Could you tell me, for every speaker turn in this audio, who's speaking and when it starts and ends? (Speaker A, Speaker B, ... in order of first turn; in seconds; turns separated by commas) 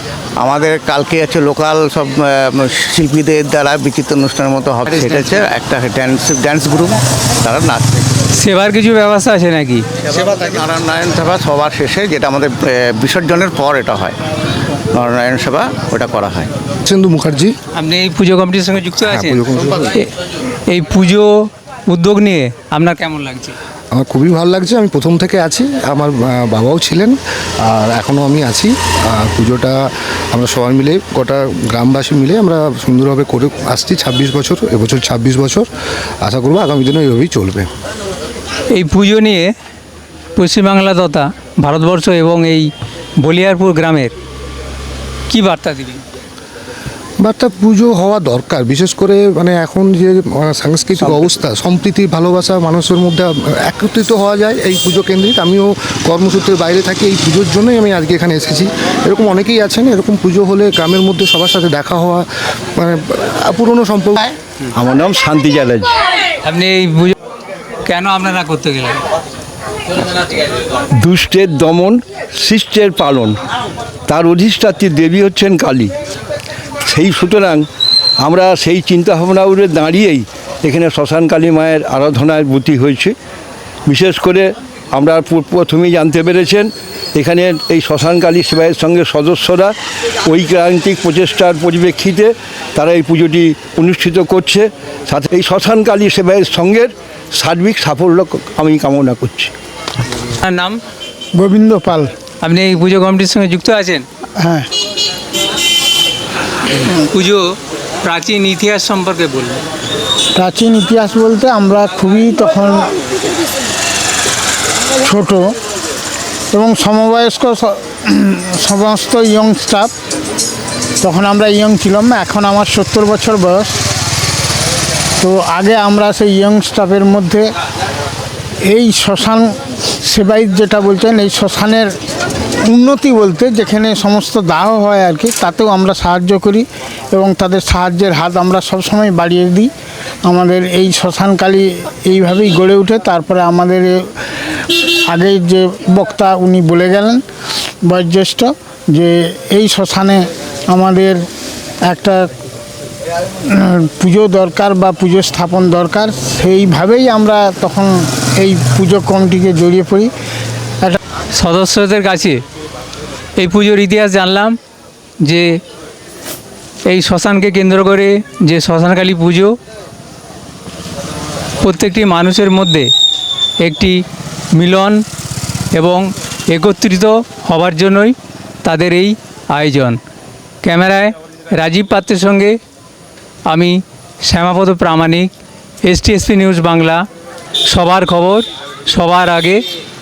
Speaker A: 0.4-8.1, Speaker B: 8.3-9.8, Speaker A: 10.0-14.2, Speaker A: 14.9-16.5, Speaker C: 16.9-17.5, Speaker B: 17.7-19.4, Speaker C: 19.1-19.9, Speaker B: 20.7-21.3, Speaker B: 21.9-23.6, Speaker C: 23.9-29.8, Speaker C: 30.3-35.7, Speaker C: 36.2-37.7, Speaker B: 38.7-39.5, Speaker B: 40.4-42.7, Speaker B: 43.2-44.1, Speaker B: 45.3-46.0, Speaker C: 47.2-62.2, Speaker C: 62.8-64.3, Speaker D: 64.8-66.0, Speaker B: 66.4-67.1, Speaker B: 67.8-69.0, Speaker D: 71.0-73.4, Speaker D: 74.1-75.9, Speaker D: 76.9-77.7, Speaker D: 78.2-83.1, Speaker D: 83.9-89.7, Speaker D: 90.3-99.5, Speaker B: 100.4-100.8, Speaker E: 101.4-102.1, Speaker B: 102.4-104.0, Speaker E: 104.4-104.7, Speaker B: 107.1-107.5, Speaker B: 108.0-109.6, Speaker E: 110.3-112.9, Speaker E: 115.0-115.5, Speaker E: 116.5-119.9, Speaker E: 121.0-123.7, Speaker E: 125.2-127.4, Speaker E: 128.7-129.5, Speaker E: 130.0-131.9, Speaker E: 132.7-139.7, Speaker E: 140.3-144.0, Speaker E: 145.1-147.2, Speaker E: 147.8-151.2, Speaker E: 151.9-152.2, Speaker E: 153.5-160.1, Speaker B: 161.3-162.4, Speaker B: 163.4-164.6, Speaker B: 165.2-165.5, Speaker B: 166.8-169.5, Speaker B: 171.6-172.9, Speaker B: 173.6-174.0, Speaker B: 174.5-175.0, Speaker B: 175.7-180.0, Speaker B: 180.6-182.6, Speaker B: 183.4-185.3, Speaker B: 185.8-187.0, Speaker B: 187.7-189.6